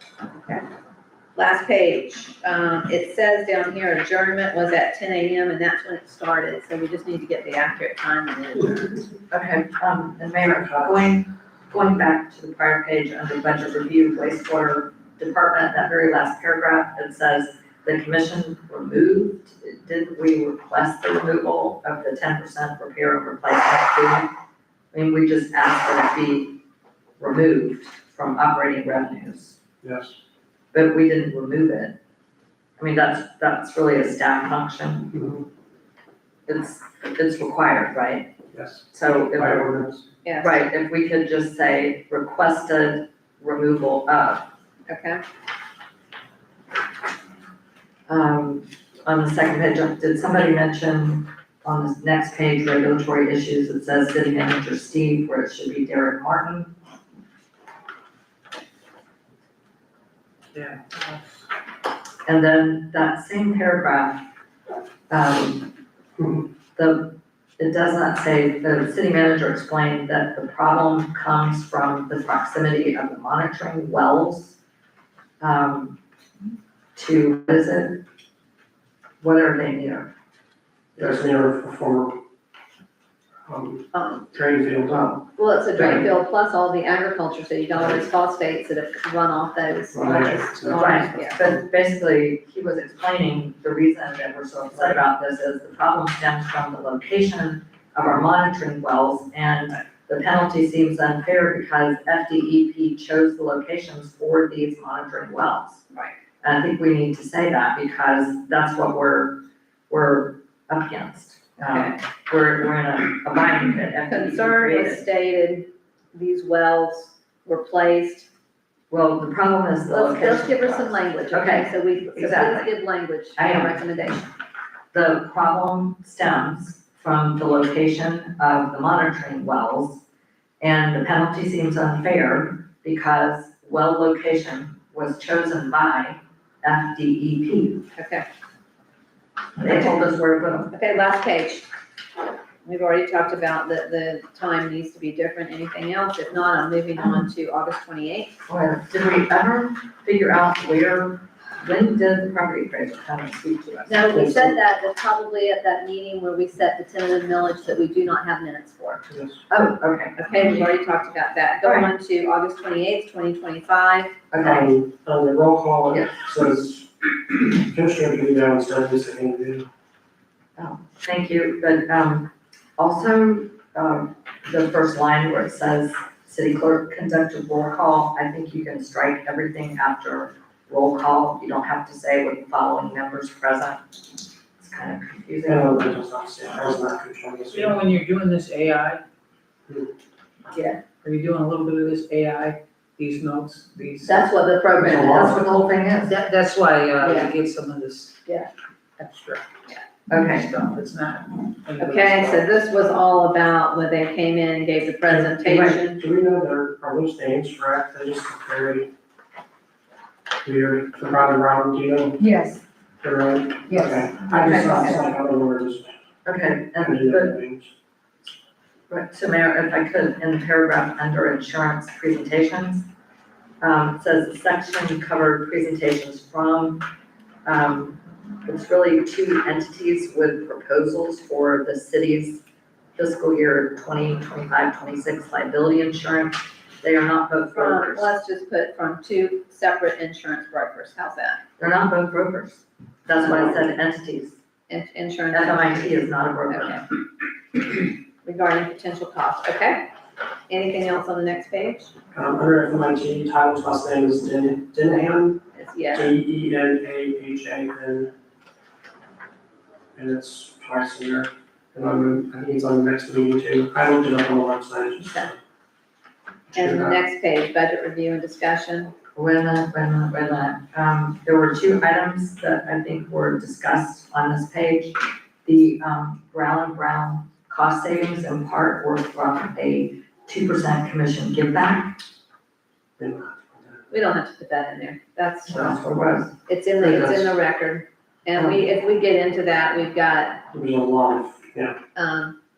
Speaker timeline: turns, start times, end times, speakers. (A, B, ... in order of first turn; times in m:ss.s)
0:00.3-0:00.6 A
0:01.3-0:09.0 A
0:09.3-0:24.3 B
0:10.5-0:11.1 C
0:24.9-0:26.6 B
0:27.2-0:29.6 B
0:29.8-0:30.2 C
0:30.7-0:31.9 B
0:32.8-0:35.1 B
0:35.1-0:35.4 C
0:36.5-0:38.3 B
0:38.5-0:40.0 C
0:38.9-0:39.7 B
0:40.2-0:40.5 A
0:40.4-0:44.4 B
0:44.9-0:45.2 A
0:48.1-0:56.7 B
1:00.5-1:01.4 D
1:02.2-1:04.3 B
1:05.1-1:05.7 B
1:06.2-1:06.5 C
1:06.8-1:14.6 B
1:15.4-1:16.0 B
1:17.0-1:18.0 B
1:19.2-1:20.1 B
1:21.0-1:22.2 C
1:23.4-1:25.2 C
1:23.9-1:24.3 A
1:24.9-1:25.2 B
1:25.4-1:31.4 A
1:25.7-1:26.0 B
1:29.9-1:31.6 C
1:30.7-1:45.8 B
1:46.4-1:55.0 B
1:51.7-1:51.9 A
1:54.1-1:58.3 A
1:58.9-2:02.7 B
1:59.9-2:04.3 A
2:03.4-2:04.2 B
2:04.9-2:10.0 B
2:10.6-2:17.8 B
2:18.0-2:18.3 A
2:19.6-2:20.7 B
2:19.6-2:20.1 A
2:20.7-2:21.7 A
2:22.6-2:28.4 A
2:27.0-2:27.3 B
2:28.5-2:34.5 B
2:33.9-2:39.0 A
2:39.1-2:39.4 C
2:39.5-2:40.2 B
2:40.2-2:44.1 A
2:41.6-2:41.9 B
2:44.3-2:44.7 B
2:44.4-2:49.7 C
2:50.6-3:03.8 B
3:04.6-3:05.9 B
3:05.5-3:07.8 C
3:07.5-3:09.0 D
3:10.5-3:10.8 A
3:11.0-3:14.3 D
3:14.0-3:15.4 A
3:14.8-3:16.2 B
3:14.8-3:15.3 C
3:16.0-3:18.2 D
3:17.0-3:17.3 A
3:19.0-3:19.5 D
3:20.1-3:20.5 B
3:20.2-3:22.5 D
3:21.8-3:26.0 A
3:25.1-3:28.9 C
3:25.4-3:25.8 B
3:30.4-3:32.2 C
3:32.2-3:32.6 B
3:33.0-3:36.0 C
3:34.0-3:35.0 B
3:36.2-3:37.4 B
3:36.8-3:37.7 C
3:38.9-3:42.9 B
3:43.6-3:46.8 B
3:47.4-3:52.4 B
3:53.0-3:58.1 B
3:57.5-4:01.4 A
4:01.6-4:04.4 B
4:04.7-4:06.8 A
4:05.3-4:06.8 B
4:08.2-4:09.9 A
4:10.5-4:11.9 A
4:12.1-4:15.4 C
4:15.5-4:16.1 A
4:15.9-4:18.1 C
4:20.0-4:25.4 C
4:25.0-4:25.3 A
4:26.5-4:27.0 C
4:26.5-4:28.9 A
4:29.2-4:42.0 B
4:43.0-4:43.8 C
4:43.9-4:45.8 A
4:45.5-4:46.3 B
4:46.5-4:50.4 A
4:46.8-4:47.3 C
4:48.4-4:48.6 B
4:50.5-4:51.8 C
4:51.9-4:52.4 A